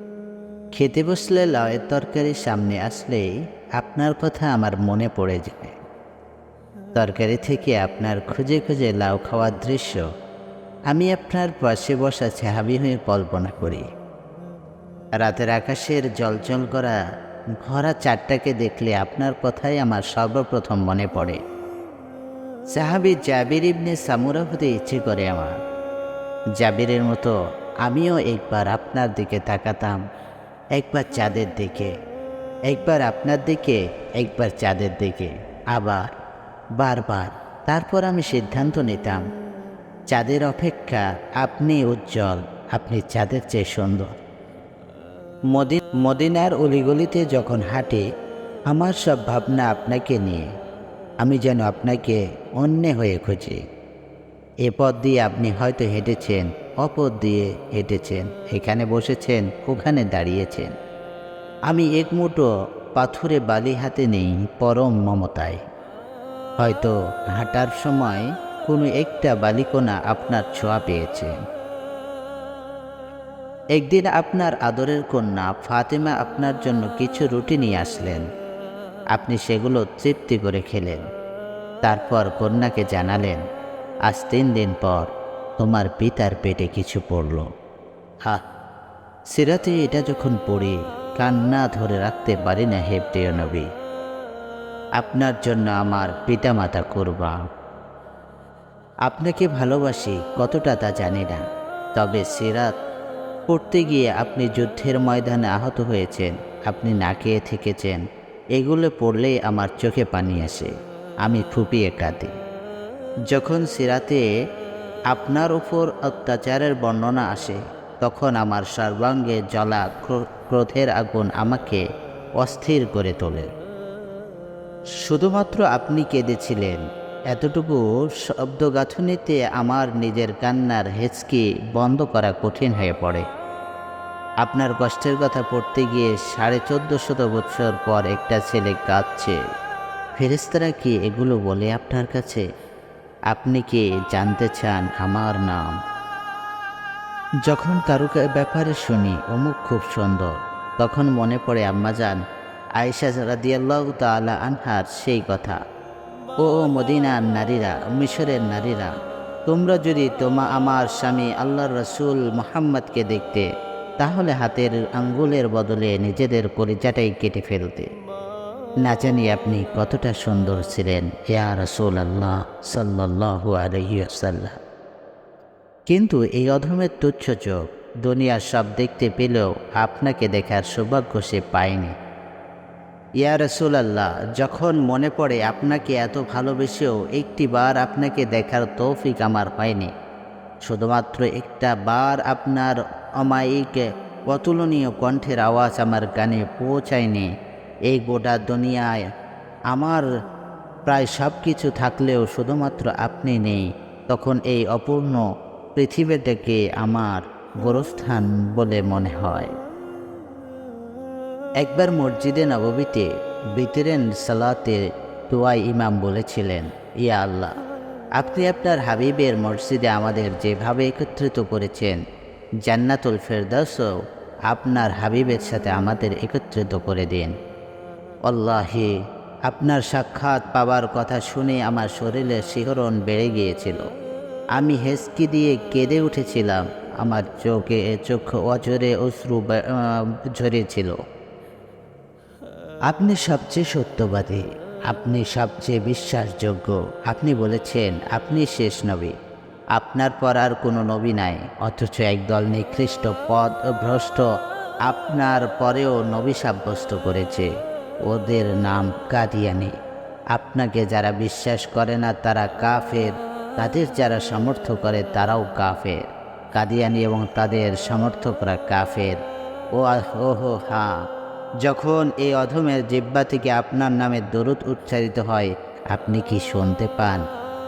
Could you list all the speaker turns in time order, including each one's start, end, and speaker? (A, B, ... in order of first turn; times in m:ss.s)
0:00.7-0:05.8 A
0:06.9-0:10.0 A
0:10.9-0:13.8 A
0:15.2-0:17.0 A
0:17.6-0:21.4 A
0:22.7-0:25.6 A
0:26.6-0:30.0 A
0:30.7-0:31.9 A
0:32.7-0:36.1 A
0:36.8-0:39.2 A
0:40.1-0:44.1 A
0:45.5-0:48.0 A
0:48.7-0:50.5 A
0:51.2-0:53.6 A
0:54.6-1:00.7 A
1:01.7-1:05.6 A
1:06.6-1:11.3 A
1:13.7-1:18.2 A
1:19.1-1:21.0 A
1:21.8-1:23.4 A
1:24.1-1:27.5 A
1:29.3-1:33.7 A
1:35.0-1:37.4 A
1:39.0-1:41.4 A
1:42.0-1:42.7 A
1:43.5-1:48.0 A
1:48.6-1:50.7 A
1:51.2-1:52.3 A
1:53.3-1:54.2 A
1:55.1-2:01.8 A
2:02.4-2:03.5 A
2:05.0-2:13.2 A
2:14.4-2:19.4 A
2:20.2-2:22.4 A
2:23.3-2:25.8 A
2:27.4-2:32.2 A
2:32.8-2:35.6 A
2:36.4-2:38.9 A
2:39.5-2:43.5 A
2:44.0-2:47.9 A
2:48.8-2:54.6 A
2:55.9-3:01.9 A
3:03.2-3:09.9 A
3:10.6-3:17.3 A
3:17.9-3:19.0 A
3:19.7-3:20.1 A
3:20.8-3:29.5 A
3:31.6-3:37.5 A
3:38.2-3:42.0 A
3:42.6-3:43.9 A
3:44.5-3:47.3 A
3:48.2-3:48.9 A
3:49.5-3:53.9 A
3:54.5-4:01.0 A
4:02.9-4:09.2 A
4:09.7-4:14.2 A
4:14.8-4:17.5 A
4:18.0-4:19.7 A
4:20.3-4:26.0 A
4:26.5-4:29.2 A
4:29.7-4:31.0 A
4:31.6-4:37.2 A